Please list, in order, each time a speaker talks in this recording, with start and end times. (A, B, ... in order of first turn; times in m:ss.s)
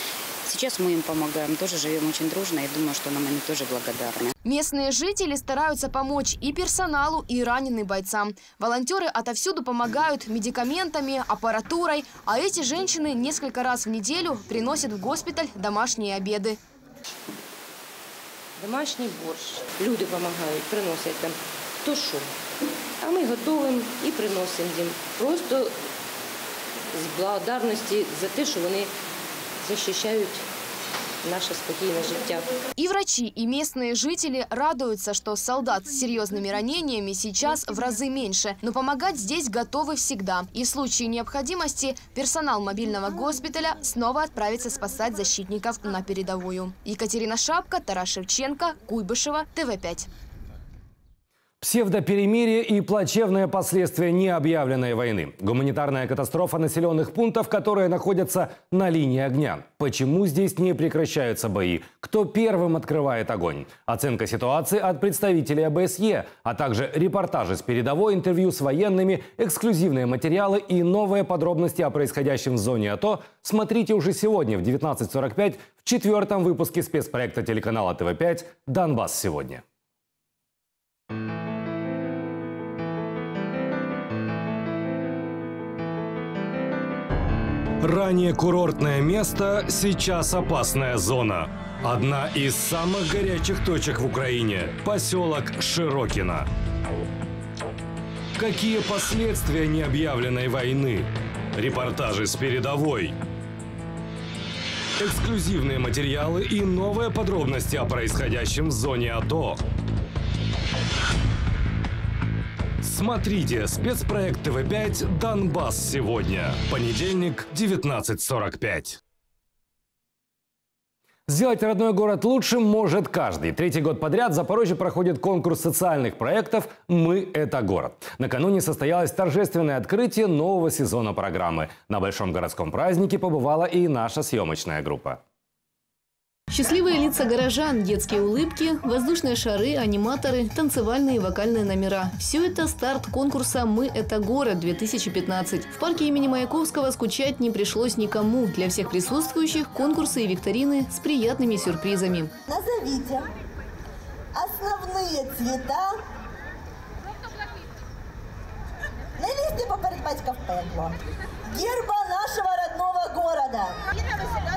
0:00.4-0:04.3 A
0:04.5-0:16.5 B
0:18.6-0:22.3 C
0:23.0-0:25.7 C
0:26.9-0:28.9 C
0:29.6-0:30.4 C
0:31.2-0:32.5 C
0:32.8-0:50.1 B
0:51.6-1:19.6 D
1:27.8-1:36.5 D
1:38.4-1:43.2 D
1:45.0-1:49.6 D
1:52.8-1:59.0 D
2:01.3-2:15.2 D
2:16.5-2:32.3 E
2:32.5-2:33.2 F
2:34.4-2:35.9 F
2:39.2-2:40.9 F
2:41.6-2:43.8 F